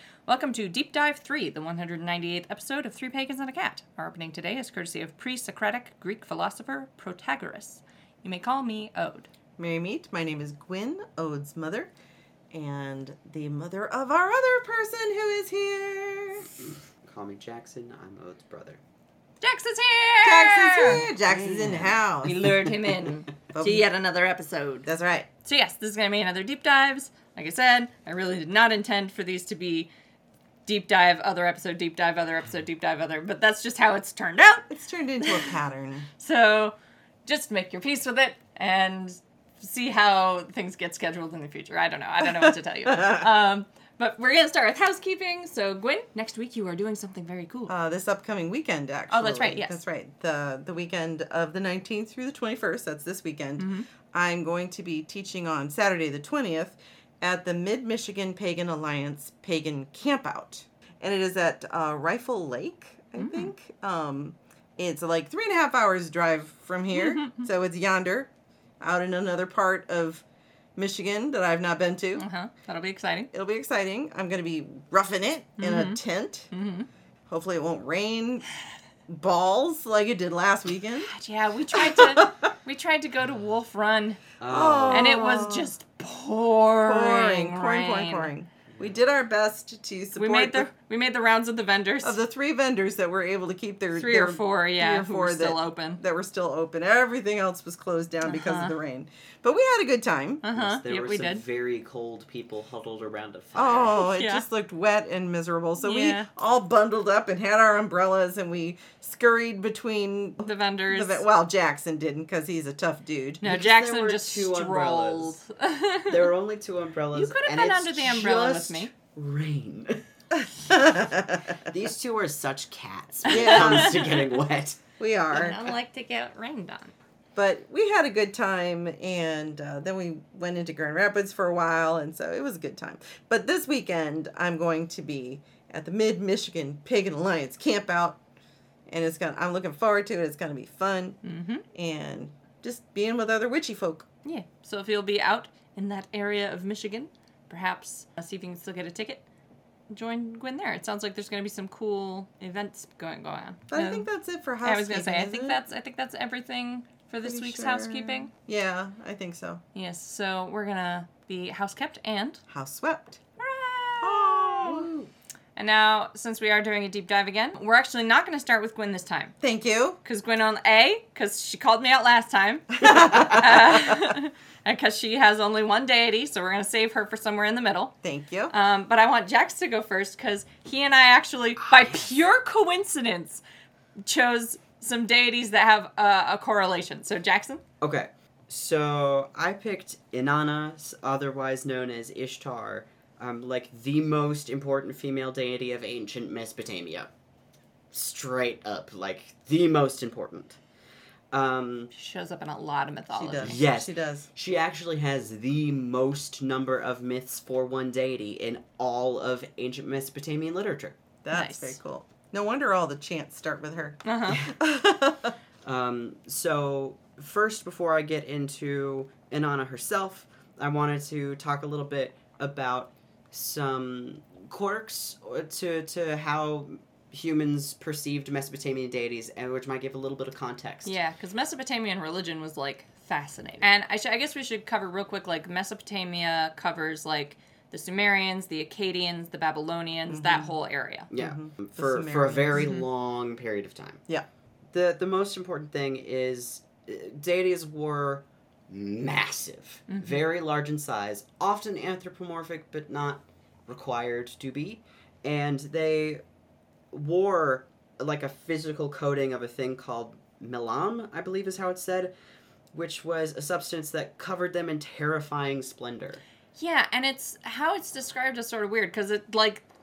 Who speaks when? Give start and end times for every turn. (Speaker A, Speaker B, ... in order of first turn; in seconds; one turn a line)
Speaker A: 0.3-9.3
Speaker B: 9.6-11.9
Speaker B: 12.5-16.5
Speaker C: 17.0-18.8
Speaker A: 19.4-21.0
Speaker B: 20.2-22.6
Speaker C: 20.9-22.0
Speaker A: 22.2-24.9
Speaker B: 23.5-23.9
Speaker B: 24.9-25.3
Speaker A: 25.4-29.9
Speaker A: 30.6-35.5
Speaker B: 34.7-36.1
Speaker A: 36.2-47.7
Speaker B: 42.9-43.3
Speaker B: 47.7-70.2
Speaker A: 49.1-49.8
Speaker A: 53.6-53.9
Speaker A: 63.1-63.5
Speaker A: 66.9-67.5
Speaker B: 70.8-72.2
Speaker A: 72.2-73.3
Speaker B: 73.3-76.5
Speaker A: 75.6-76.0
Speaker A: 76.5-76.9
Speaker B: 77.3-78.5
Speaker B: 79.1-81.1
Speaker A: 81.1-84.2
Speaker B: 81.7-82.3
Speaker C: 84.4-85.1
Speaker B: 84.5-85.7
Speaker A: 84.9-88.3
Speaker B: 86.8-90.7
Speaker A: 90.2-92.2
Speaker B: 92.0-100.4
Speaker A: 93.9-96.0
Speaker A: 98.2-98.7
Speaker A: 100.4-101.4
Speaker C: 100.5-104.0
Speaker B: 103.5-113.4
Speaker A: 103.9-104.4
Speaker A: 105.8-106.3
Speaker A: 110.4-111.2
Speaker A: 113.4-116.3
Speaker C: 113.4-115.4
Speaker C: 116.1-120.0
Speaker A: 117.1-118.9
Speaker B: 120.4-121.6
Speaker C: 121.5-124.8
Speaker B: 123.3-124.0
Speaker A: 123.4-124.0
Speaker B: 125.0-125.6
Speaker A: 125.3-126.9
Speaker B: 127.3-138.2
Speaker B: 138.9-141.2
Speaker A: 141.2-141.6
Speaker B: 141.7-144.1
Speaker A: 144.2-149.2
Speaker A: 149.9-154.1
Speaker B: 153.7-155.6
Speaker A: 154.6-158.3
Speaker B: 157.2-159.6
Speaker A: 159.7-162.4
Speaker B: 162.5-163.2
Speaker A: 163.4-164.9
Speaker B: 164.0-164.9
Speaker C: 164.7-165.1
Speaker A: 165.6-169.3
Speaker B: 169.4-170.0
Speaker A: 170.0-177.9
Speaker B: 172.8-174.2
Speaker C: 173.1-173.4
Speaker B: 178.0-178.5
Speaker A: 178.5-183.4
Speaker C: 181.7-182.0
Speaker A: 184.1-187.6
Speaker C: 187.8-197.1
Speaker C: 197.9-200.6
Speaker C: 201.3-201.9
Speaker A: 201.9-203.7
Speaker B: 203.1-204.3
Speaker C: 203.4-211.0
Speaker B: 211.2-215.3
Speaker A: 211.3-211.8
Speaker A: 214.0-214.4
Speaker C: 215.6-230.9
Speaker A: 230.8-241.1
Speaker B: 240.1-240.5
Speaker C: 241.1-244.0
Speaker B: 241.1-242.7
Speaker A: 242.6-242.8
Speaker C: 244.7-256.2
Speaker A: 249.9-250.2
Speaker C: 256.9-262.1
Speaker C: 262.7-266.2
Speaker A: 266.5-269.6